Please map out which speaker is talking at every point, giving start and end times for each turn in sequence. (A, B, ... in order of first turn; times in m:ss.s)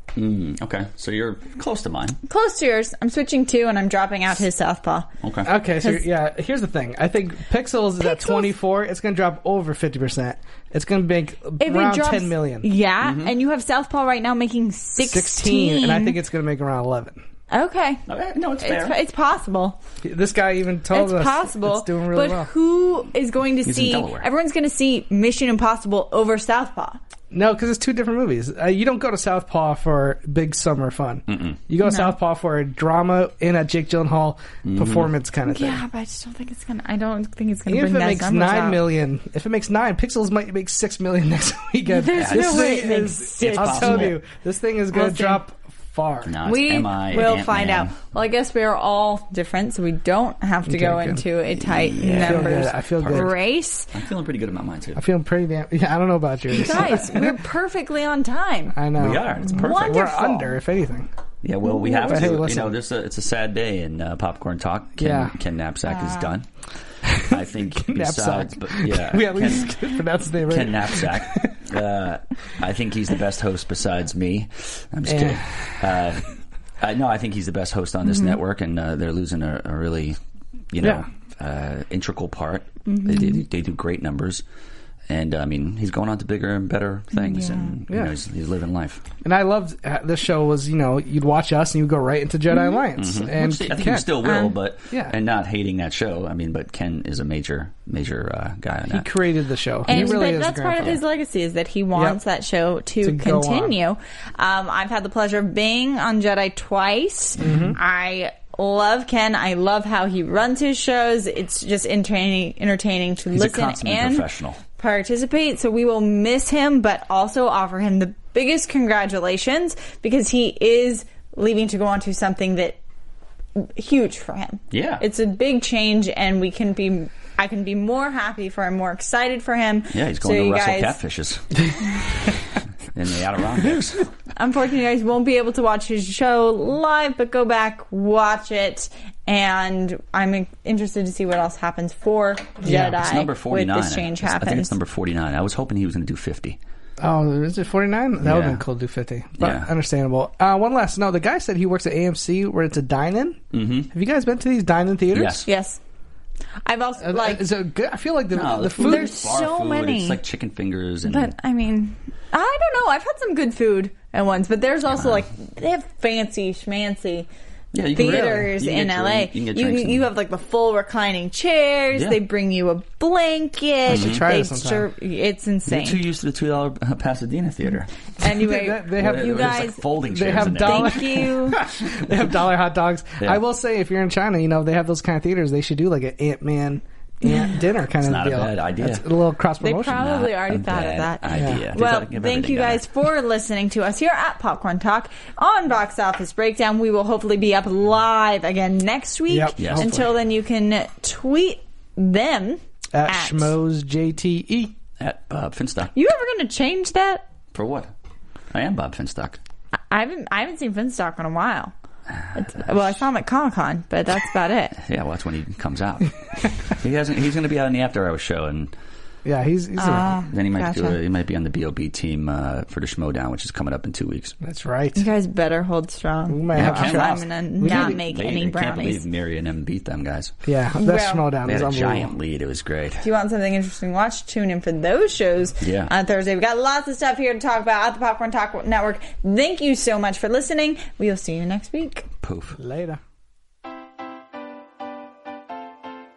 0:00.2-0:02.2 A
0:02.3-0:05.1 B
0:05.2-0:05.5 A
0:05.4-0:12.7 C
0:05.8-0:06.0 B
0:08.0-0:08.5 B
0:11.6-0:16.2 B
0:13.0-0:13.3 A
0:15.0-0:17.2 C
0:17.5-0:18.0 B
0:18.1-0:19.0 A
0:18.6-0:19.8 B
0:20.0-0:22.5 C
0:20.9-0:27.0 B
0:23.7-0:24.3 A
0:27.3-0:35.8 C
0:31.3-0:31.6 A
0:31.8-0:32.2 B
0:34.6-0:35.1 A
0:35.4-0:38.8 B
0:37.7-0:46.4 C
0:41.9-0:44.1 B
0:42.2-0:42.7 A
0:43.4-0:44.2 A
0:44.9-0:45.4 B
0:46.3-0:48.0 A
0:46.4-0:53.9 B
0:50.7-0:51.2 C
0:51.8-0:53.3 A
0:52.0-0:53.3 C
0:53.9-0:55.0 A
0:55.0-0:57.4 C
0:56.5-0:58.8 B
0:58.7-1:01.1 C
0:59.0-1:00.4 A
0:59.5-1:00.4 B
1:01.4-1:06.5 A
1:01.9-1:02.7 C
1:05.0-1:05.3 C
1:05.9-1:06.3 B
1:07.0-1:11.6 C
1:07.2-1:09.7 A
1:10.5-1:20.2 A
1:15.1-1:16.0 C
1:20.7-1:24.4 A
1:20.8-1:21.0 C
1:22.9-1:23.4 B
1:25.1-1:29.0 A
1:27.1-1:27.7 B
1:29.2-1:34.2 C
1:32.5-1:32.8 B
1:33.0-1:39.1 A
1:34.2-1:34.6 B
1:38.9-1:41.0 C
1:39.9-2:02.8 B
1:42.0-1:42.2 C
1:43.0-1:43.8 C
1:47.4-1:47.8 C
1:53.3-1:54.6 A
2:03.6-2:11.0 B
2:04.7-2:05.0 A
2:09.9-2:12.4 A
2:12.9-2:14.1 A
2:14.4-2:24.7 B
2:22.6-2:23.0 C
2:22.7-2:26.6 A
2:27.0-2:35.4 C
2:28.2-2:28.6 A
2:29.4-2:29.7 A
2:33.5-2:33.9 A
2:35.1-2:35.5 A
2:35.5-2:35.8 B
2:36.6-2:37.5 B
2:37.0-2:39.2 C
2:38.3-2:41.3 A
2:38.8-2:40.2 B
2:41.1-2:47.3 B
2:47.7-2:50.1 A
2:48.0-2:56.0 B
2:48.0-2:48.5 C
2:51.9-2:52.2 A
2:53.9-2:54.9 C
2:53.9-2:54.3 A
2:55.7-2:57.9 A
2:58.2-3:01.6 B
2:58.2-3:10.0 C
2:59.0-3:01.2 A
3:08.0-3:09.1 A
3:09.6-3:23.6 B
3:09.8-3:12.8 A
3:11.3-3:11.7 C
3:19.3-3:20.1 C
3:19.6-3:20.0 A
3:22.9-3:24.8 C
3:25.0-3:25.9 A
3:25.9-3:27.2 B
3:27.5-3:27.9 A
3:28.5-3:29.4 A
3:29.9-3:31.7 B
3:32.2-3:32.9 A
3:32.4-3:34.8 B
3:34.8-3:38.7 A
3:39.2-3:40.1 C
3:39.8-3:41.0 B
3:40.3-3:44.4 A
3:44.4-3:45.0 C
3:45.0-3:49.0 B
3:46.3-3:48.0 C
3:46.6-3:50.3 A
3:50.5-3:52.1 C
3:50.8-3:51.3 B
3:51.5-3:53.0 A
3:53.0-4:02.1 B
3:55.6-3:55.9 A
4:02.2-4:02.6 A
4:02.6-4:03.0 C